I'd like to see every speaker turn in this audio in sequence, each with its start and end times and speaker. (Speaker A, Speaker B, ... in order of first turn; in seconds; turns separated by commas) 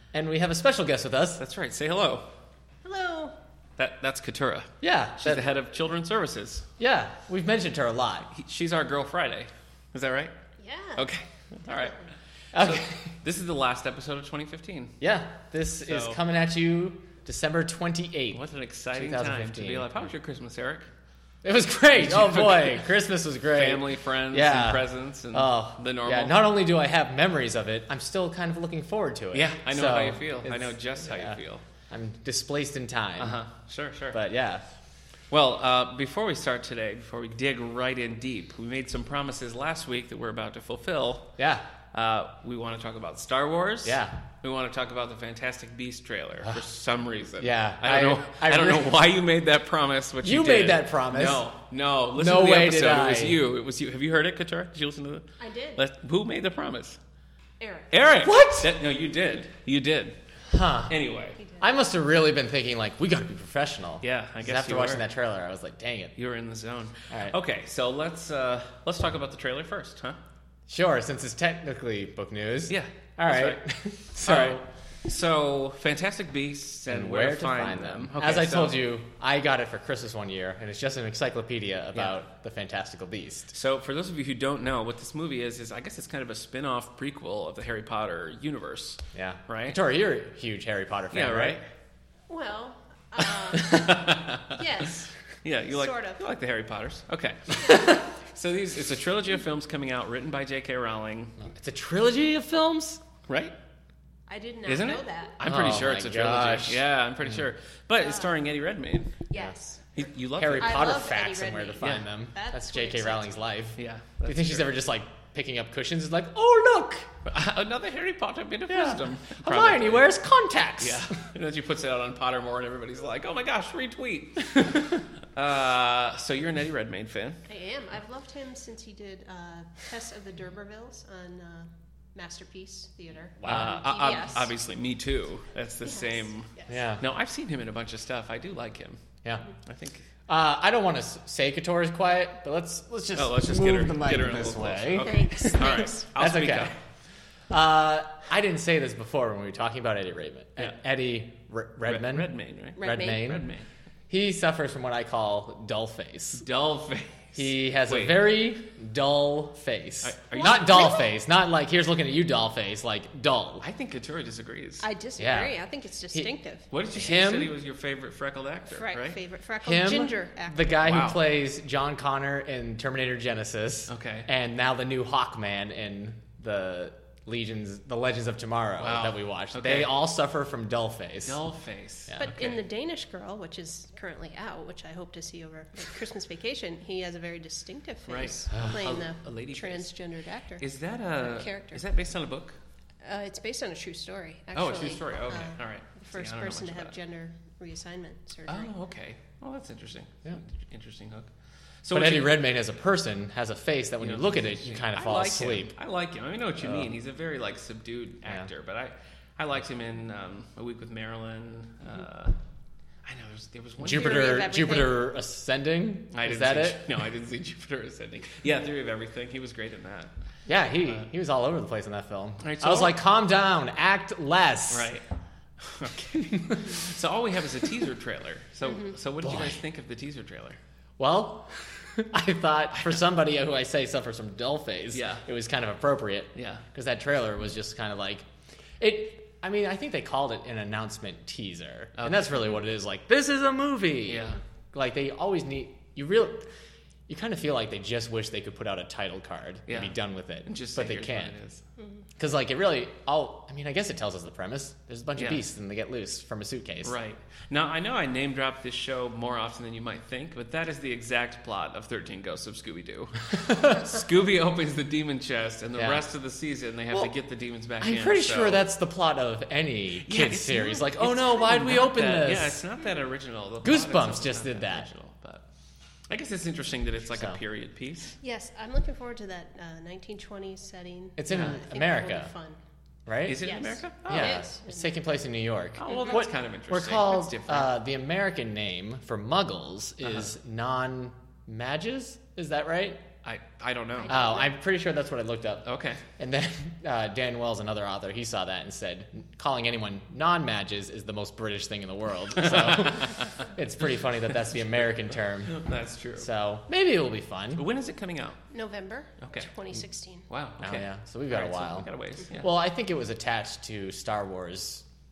Speaker A: 0.1-1.4, Speaker B: 1.4-2.3, Speaker C: 2.8-3.4, Speaker B: 3.8-6.7, Speaker A: 4.8-5.5, Speaker A: 6.8-8.3, Speaker B: 8.3-10.3, Speaker C: 10.6-11.1, Speaker B: 11.0-12.0, Speaker A: 12.5-13.1, Speaker B: 12.6-15.0, Speaker A: 15.0-18.4, Speaker B: 15.8-16.2, Speaker B: 18.3-20.9, Speaker A: 18.9-19.9, Speaker A: 21.4-31.4, Speaker B: 22.0-22.9, Speaker B: 23.5-26.4, Speaker B: 29.3-31.6, Speaker A: 31.9-33.4, Speaker B: 33.2-34.2, Speaker A: 34.1-34.6, Speaker B: 35.3-41.4, Speaker A: 41.4-41.7, Speaker B: 41.9-57.0, Speaker A: 43.8-44.2, Speaker A: 47.4-49.0, Speaker A: 50.2-51.4, Speaker A: 52.1-53.4, Speaker C: 55.4-55.8, Speaker C: 57.6-58.2, Speaker B: 57.9-60.1, Speaker A: 58.2-58.7, Speaker A: 60.5-61.0, Speaker B: 60.9-61.4, Speaker C: 61.4-61.6, Speaker A: 61.6-66.2, Speaker B: 64.0-65.0, Speaker B: 66.2-70.2, Speaker A: 67.1-67.4, Speaker A: 70.7-74.7, Speaker B: 72.7-73.6, Speaker B: 74.2-78.8, Speaker A: 76.9-83.5, Speaker B: 83.5-89.8, Speaker A: 89.1-91.6, Speaker B: 91.1-91.7, Speaker C: 92.3-95.1, Speaker B: 93.5-94.6, Speaker B: 95.4-101.3, Speaker C: 95.7-96.2, Speaker C: 97.5-98.0, Speaker A: 101.4-103.0, Speaker B: 103.3-103.5, Speaker C: 104.3-105.3, Speaker B: 104.7-109.2, Speaker A: 105.4-106.8, Speaker C: 108.0-108.3, Speaker C: 109.3-113.4, Speaker B: 110.0-110.9, Speaker A: 110.3-117.1, Speaker B: 111.8-112.1, Speaker B: 113.8-114.8, Speaker B: 117.2-120.1, Speaker A: 118.7-121.2, Speaker B: 120.8-127.4, Speaker C: 127.5-134.5, Speaker A: 133.4-133.8, Speaker B: 133.4-139.0, Speaker C: 135.8-136.8, Speaker A: 136.7-137.0, Speaker B: 139.7-140.1, Speaker A: 140.3-146.7, Speaker B: 143.2-146.8, Speaker C: 145.0-146.0, Speaker A: 147.5-153.4, Speaker B: 151.9-153.7, Speaker C: 152.8-153.3, Speaker A: 154.1-156.5, Speaker B: 156.4-158.3, Speaker A: 157.4-163.7, Speaker B: 160.0-160.9, Speaker C: 160.3-161.1, Speaker B: 163.6-164.9, Speaker C: 164.8-166.7, Speaker A: 165.2-165.5, Speaker B: 166.7-169.2, Speaker A: 166.9-167.6, Speaker C: 168.7-170.8, Speaker A: 169.6-181.4, Speaker B: 170.8-171.2, Speaker B: 173.9-174.3, Speaker B: 178.8-179.9, Speaker B: 181.2-182.6, Speaker C: 182.2-190.7, Speaker B: 188.1-189.9, Speaker A: 188.5-188.8, Speaker B: 190.6-192.6, Speaker C: 191.2-191.8, Speaker C: 193.0-198.7, Speaker B: 194.6-196.9, Speaker B: 198.5-201.3, Speaker B: 201.8-202.4, Speaker A: 201.9-205.7, Speaker B: 204.0-212.3, Speaker A: 206.6-206.9, Speaker B: 213.1-214.5, Speaker A: 213.8-217.0, Speaker C: 213.9-215.0, Speaker B: 216.1-220.1, Speaker A: 220.5-224.9, Speaker B: 222.4-223.0, Speaker B: 224.7-225.0, Speaker B: 225.6-230.6, Speaker A: 226.2-226.8, Speaker A: 229.2-229.6, Speaker A: 231.0-238.3, Speaker B: 234.9-235.2, Speaker B: 236.3-236.6, Speaker A: 238.8-246.5, Speaker B: 242.0-242.3, Speaker B: 244.1-244.4, Speaker A: 247.1-251.4, Speaker B: 249.7-249.9, Speaker B: 250.4-251.6, Speaker A: 252.2-256.9, Speaker B: 255.2-255.4, Speaker B: 256.8-268.6, Speaker A: 265.8-266.0, Speaker A: 267.8-272.6, Speaker B: 270.0-275.4, Speaker A: 273.6-274.9, Speaker B: 276.1-278.2, Speaker A: 277.1-277.4, Speaker C: 278.2-282.6, Speaker A: 281.2-282.3, Speaker A: 283.1-283.5, Speaker B: 283.2-284.4, Speaker C: 283.4-285.0, Speaker A: 284.1-293.0, Speaker B: 285.8-287.7, Speaker B: 293.2-294.4, Speaker C: 294.0-294.5, Speaker A: 294.1-305.6, Speaker B: 295.6-296.0, Speaker B: 302.4-303.3, Speaker B: 305.4-306.3, Speaker A: 306.2-307.6, Speaker B: 307.6-308.4, Speaker C: 308.5-310.2, Speaker B: 309.2-309.5, Speaker B: 310.3-312.5, Speaker A: 310.6-314.8